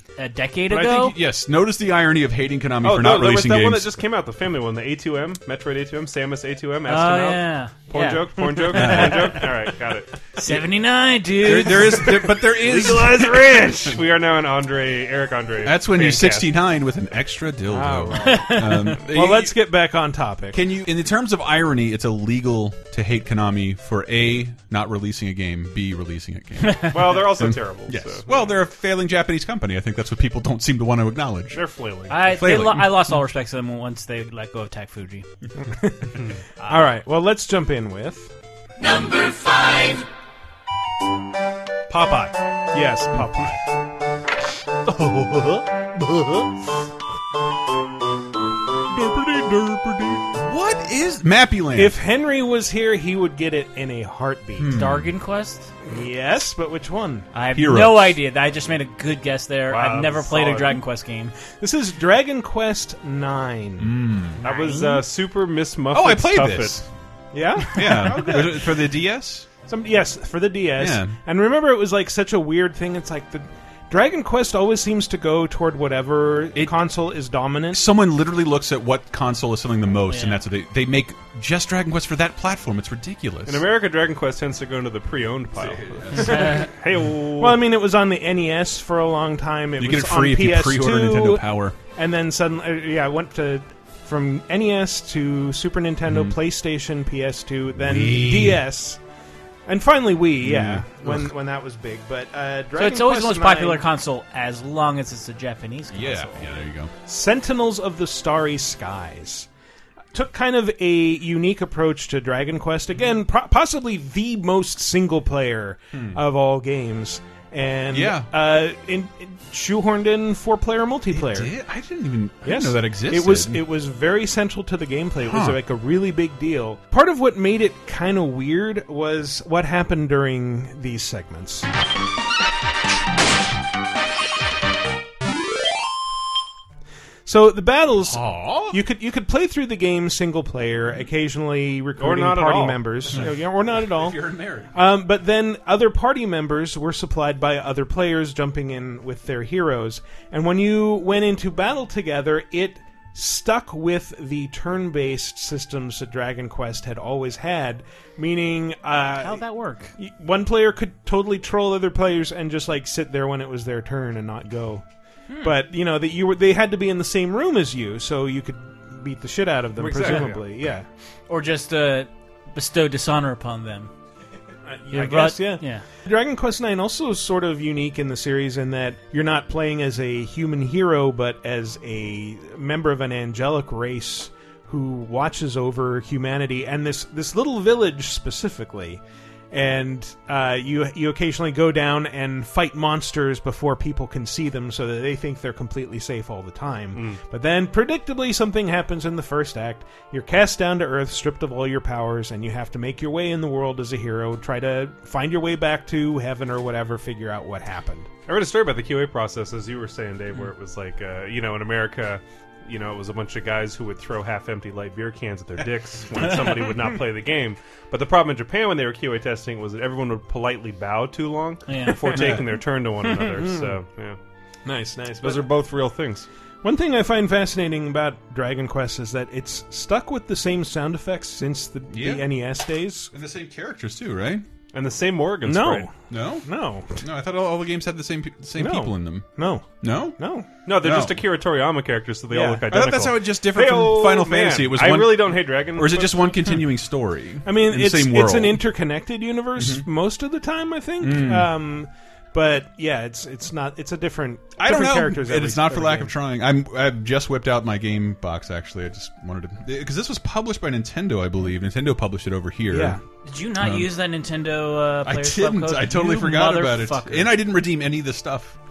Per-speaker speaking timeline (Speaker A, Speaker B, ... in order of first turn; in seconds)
Speaker A: 0.2-1.2, 6.9-9.5, 10.4-12.3, 18.2-19.0, 32.1-35.2, 54.7-55.7, 57.3-61.4, 64.4-65.0, 80.1-80.4, 86.2-86.7, 102.8-106.4, 159.2-159.9, 165.3-165.6, 171.3-173.9, 174.9-175.8, 221.7-222.3, 263.2-267.4
Speaker B: 0.7-4.0, 8.7-9.3, 11.4-13.7, 15.6-19.6, 20.5-31.6, 32.2-33.0, 48.9-52.0, 54.6-55.1, 57.5-58.2, 63.8-64.4, 65.9-66.9, 67.7-69.5, 70.8-71.2, 77.7-83.7, 85.6-86.6, 89.8-91.8, 96.1-96.4, 97.8-98.6, 100.4-101.3, 105.9-106.9, 115.9-116.2, 117.9-118.3, 121.1-123.7, 125.2-125.6, 138.1-138.8, 143.1-144.7, 222.2-222.4, 231.9-232.3, 233.1-234.4, 236.1-239.3, 239.8-240.2, 240.8-241.2, 242.7-248.7, 249.6-249.9, 251.0-251.5, 254.6-263.0, 263.6-263.9, 265.1-268.6
Speaker C: 2.8-10.1, 13.1-16.6, 26.9-28.4, 31.5-32.2, 59.7-60.8, 64.4-66.8, 83.5-87.6, 142.0-142.8, 169.8-170.4, 196.9-197.2, 208.3-224.2, 225.2-226.3, 234.7-235.9, 240.7-246.3
Speaker D: 12.3-14.0, 17.7-20.6, 35.7-38.3, 41.9-43.6, 51.7-54.8, 55.9-57.3, 61.5-64.0, 67.3-68.8, 69.7-77.9, 87.4-99.0, 99.7-103.9, 107.1-109.5, 110.1-121.5, 122.4-131.7, 137.3-144.2, 144.7-159.4, 160.0-164.8, 165.4-170.9, 174.7-208.1, 223.2-223.8, 224.7-225.5, 226.6-233.1, 235.4-237.0, 238.6-240.5, 242.3-242.7, 247.4-256.1, 262.7-263.0